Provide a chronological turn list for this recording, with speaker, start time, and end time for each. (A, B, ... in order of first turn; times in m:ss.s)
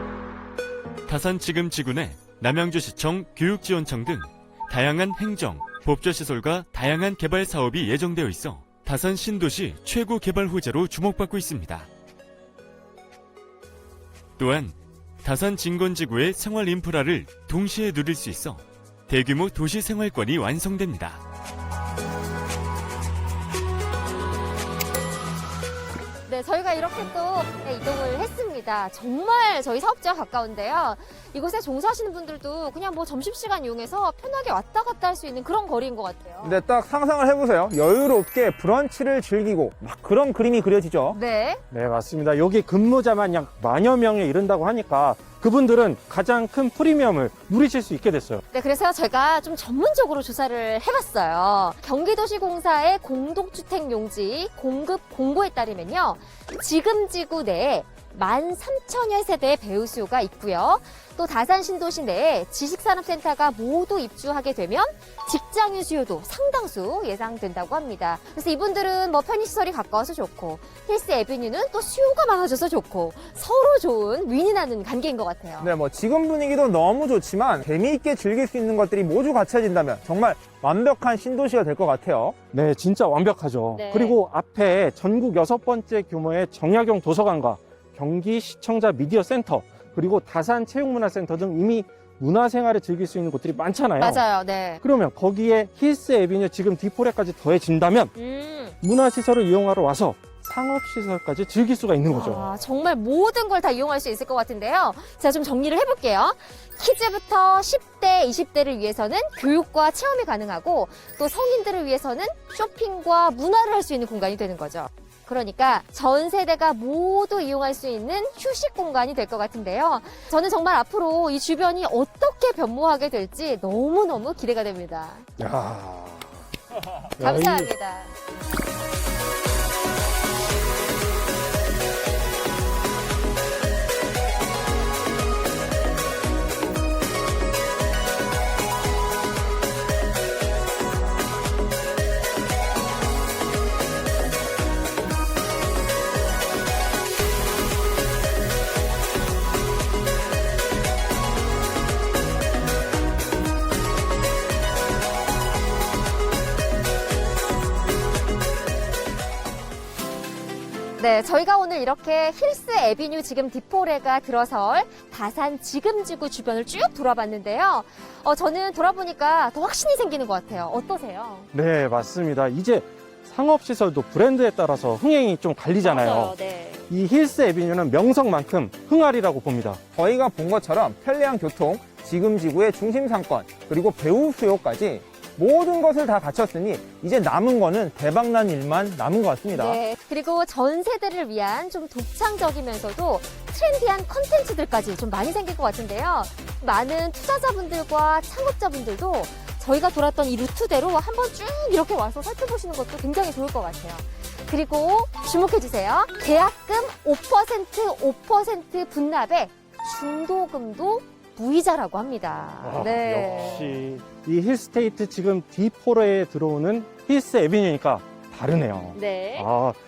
0:01.0-0:11.9 A
0:14.4-0:21.2 A
0:26.2-0:36.6 B
0:36.4-0:41.2 C
0:41.1-0:41.6 B
0:41.7-0:48.4 D
0:48.5-1:15.7 B
1:15.6-1:22.4 C
1:22.5-1:34.2 D
1:23.7-1:24.2 B
1:34.0-1:34.8 B
1:34.8-1:38.1 D
1:38.1-1:38.8 B
1:38.8-1:42.5 D
1:42.1-2:05.3 B
2:05.4-2:06.4 D
2:07.2-2:07.7 D
2:07.2-2:08.1 B
2:41.0-2:51.5 B
2:51.5-2:56.3 D
2:55.8-2:56.8 B
2:56.9-2:59.8 D
3:00.0-3:09.8 C
3:09.5-3:33.9 B
3:32.6-3:39.8 D
3:38.9-3:39.5 B